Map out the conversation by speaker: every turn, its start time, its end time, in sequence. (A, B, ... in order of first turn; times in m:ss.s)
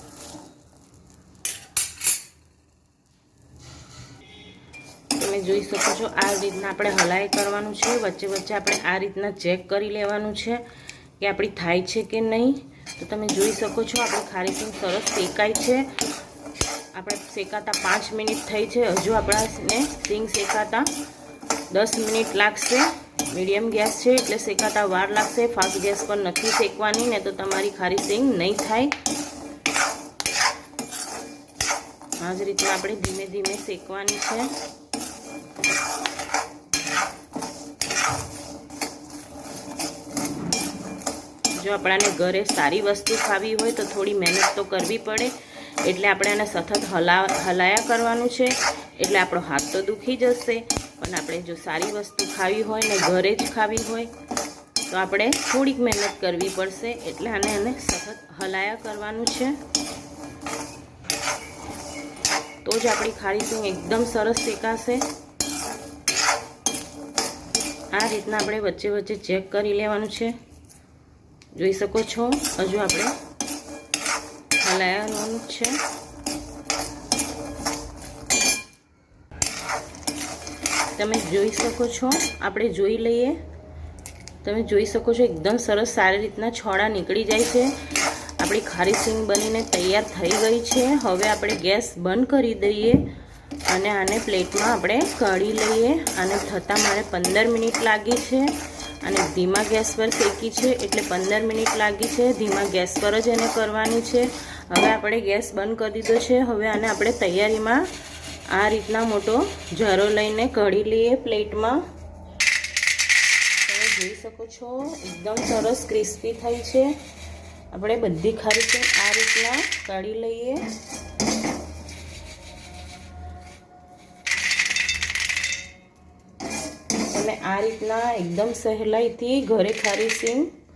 0:05.2-0:10.6 A
0:11.2-0:15.9 A
0:16.9-0:20.9 A
0:21.7-0:29.0 A
0:32.2-0:34.5 A
0:41.6-0:54.1 A
0:54.9-0:59.6 A
1:02.6-1:05.1 A
1:07.9-1:10.4 A
1:11.5-1:13.2 A
1:14.6-1:15.8 A
1:21.0-1:23.4 A
1:24.4-1:27.8 A
1:28.4-1:33.1 A
1:33.7-1:47.9 A
1:48.5-1:51.8 A
1:53.7-1:57.0 A
1:57.7-2:00.7 A
2:07.1-2:10.5 A